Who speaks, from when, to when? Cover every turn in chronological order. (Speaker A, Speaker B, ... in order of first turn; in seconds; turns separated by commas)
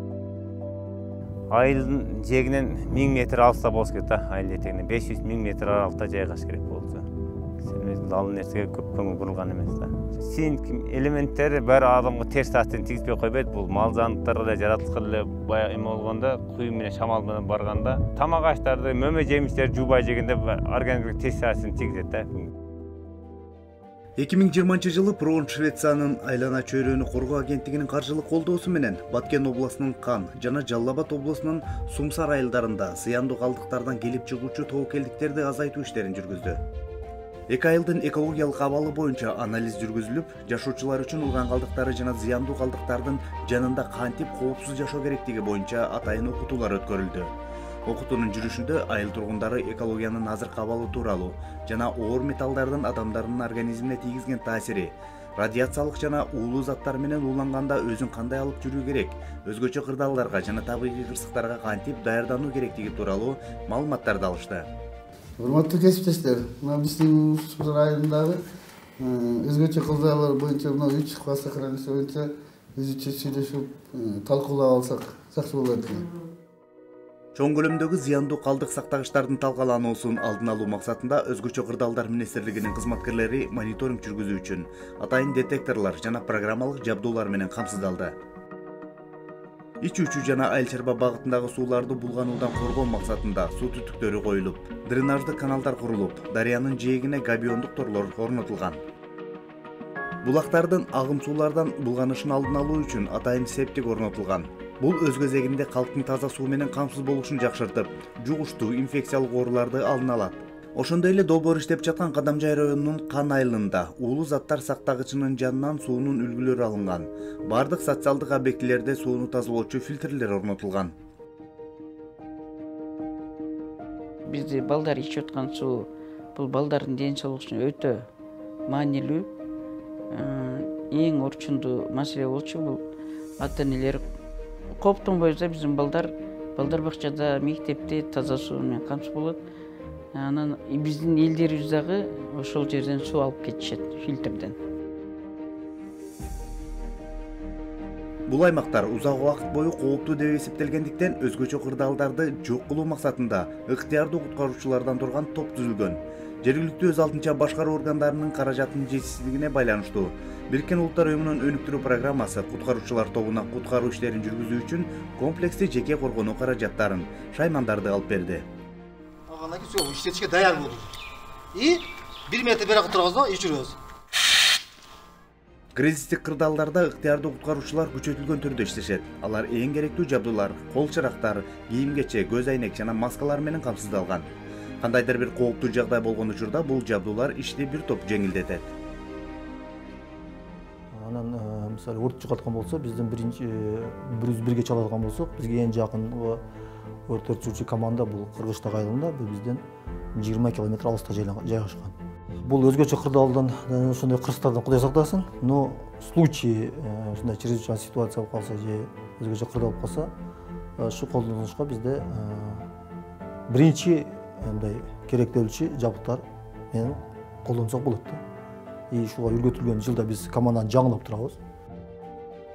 Speaker A: 1.5-7.0, Speaker A: 7.6-22.5, Speaker B: 24.2-36.6, Speaker B: 37.5-47.3, Speaker B: 47.9-64.7, Speaker C: 65.4-68.4, Speaker C: 69.0-76.1, Speaker B: 77.3-88.2, Speaker B: 89.8-98.8, Speaker B: 100.2-120.9, Speaker D: 124.2-128.1, Speaker D: 128.7-129.3, Speaker D: 130.1-132.8, Speaker D: 133.4-134.0, Speaker D: 134.8-139.4, Speaker D: 140.1-144.6, Speaker B: 148.3-168.4, Speaker E: 169.3-170.9, Speaker E: 171.5-173.8, Speaker B: 175.8-184.3, Speaker B: 184.8-188.7, Speaker F: 190.9-196.4, Speaker F: 197.1-199.6, Speaker F: 200.2-210.1, Speaker F: 210.8-212.7, Speaker F: 213.5-218.2, Speaker F: 218.9-221.4